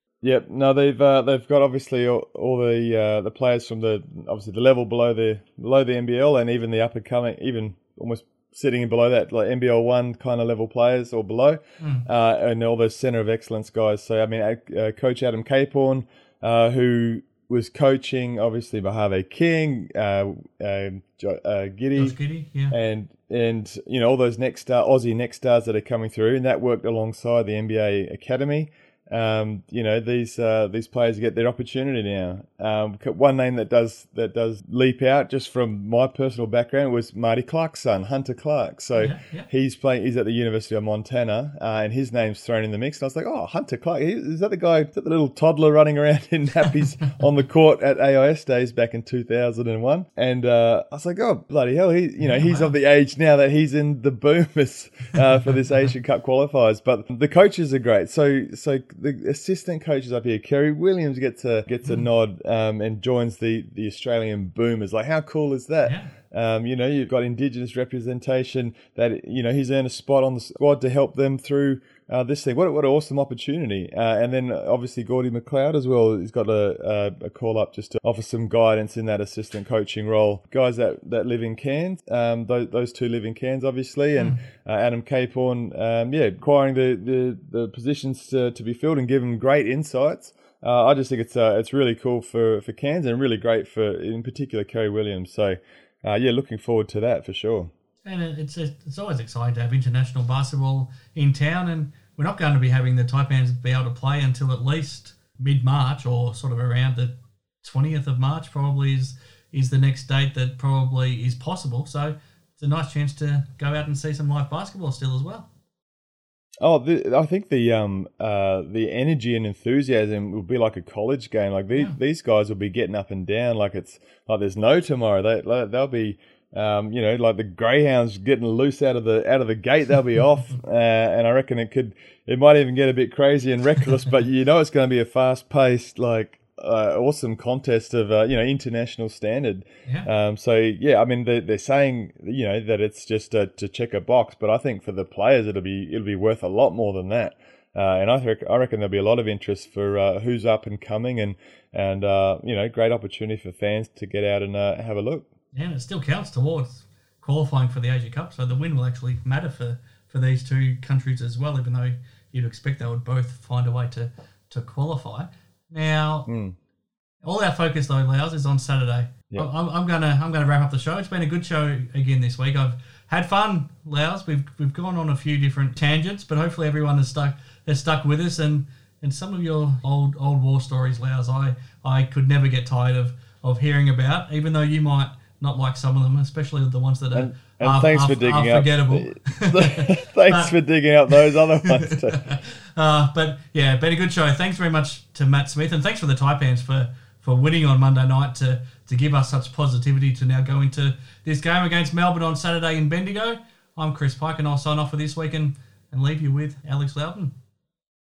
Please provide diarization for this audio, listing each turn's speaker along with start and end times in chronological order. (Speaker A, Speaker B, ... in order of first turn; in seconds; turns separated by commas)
Speaker A: 0.2-22.2, Speaker B: 11.8-12.1, Speaker B: 21.9-22.8, Speaker A: 22.7-97.7, Speaker B: 39.0-39.5, Speaker B: 52.2-52.7, Speaker B: 65.8-66.1, Speaker B: 84.2-84.4, Speaker B: 98.0-115.5, Speaker A: 116.6-155.3, Speaker B: 155.5-166.3, Speaker A: 166.3-166.6, Speaker B: 167.2-190.5, Speaker A: 187.1-192.3, Speaker B: 191.1-207.3